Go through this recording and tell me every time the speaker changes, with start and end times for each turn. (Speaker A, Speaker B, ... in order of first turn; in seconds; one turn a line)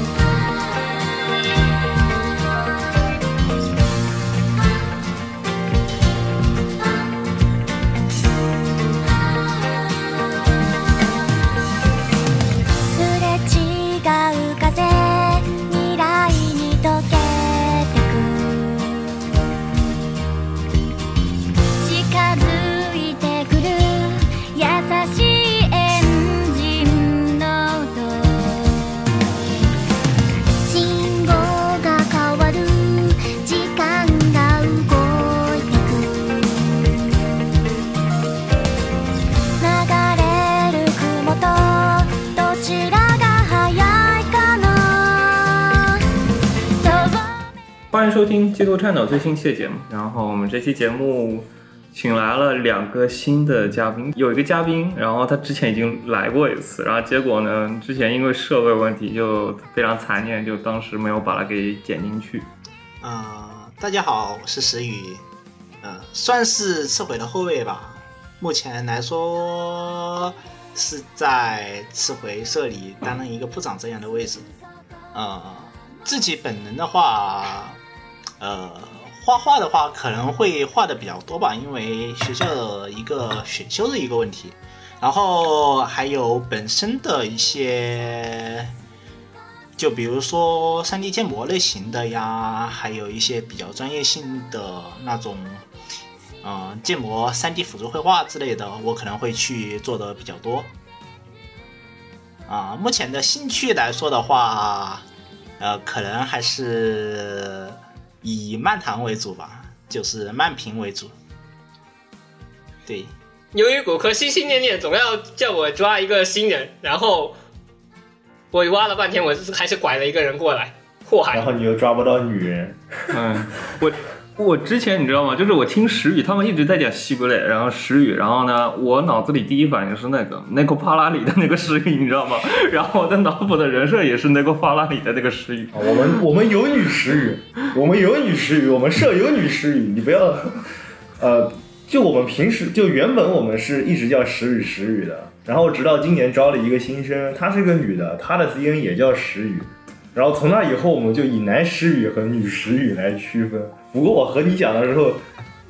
Speaker A: 12.9-19.1
Speaker A: 21.8-28.9
Speaker A: 30.6-36.5
Speaker A: 39.6-46.0
Speaker A: 46.8-47.3
Speaker B: 47.9-62.5
Speaker C: 63.0-65.2
Speaker C: 65.8-74.5
Speaker C: 75.1-77.8
Speaker C: 78.4-88.7
Speaker C: 89.8-95.6
Speaker C: 96.4-100.7
Speaker C: 102.5-105.0
Speaker C: 105.6-111.1
Speaker C: 112.9-113.1
Speaker D: 113.5-117.4
Speaker D: 118.5-121.5
Speaker E: 121.3-122.8
Speaker B: 123.1-136.2
Speaker E: 135.7-140.6
Speaker E: 141.2-155.2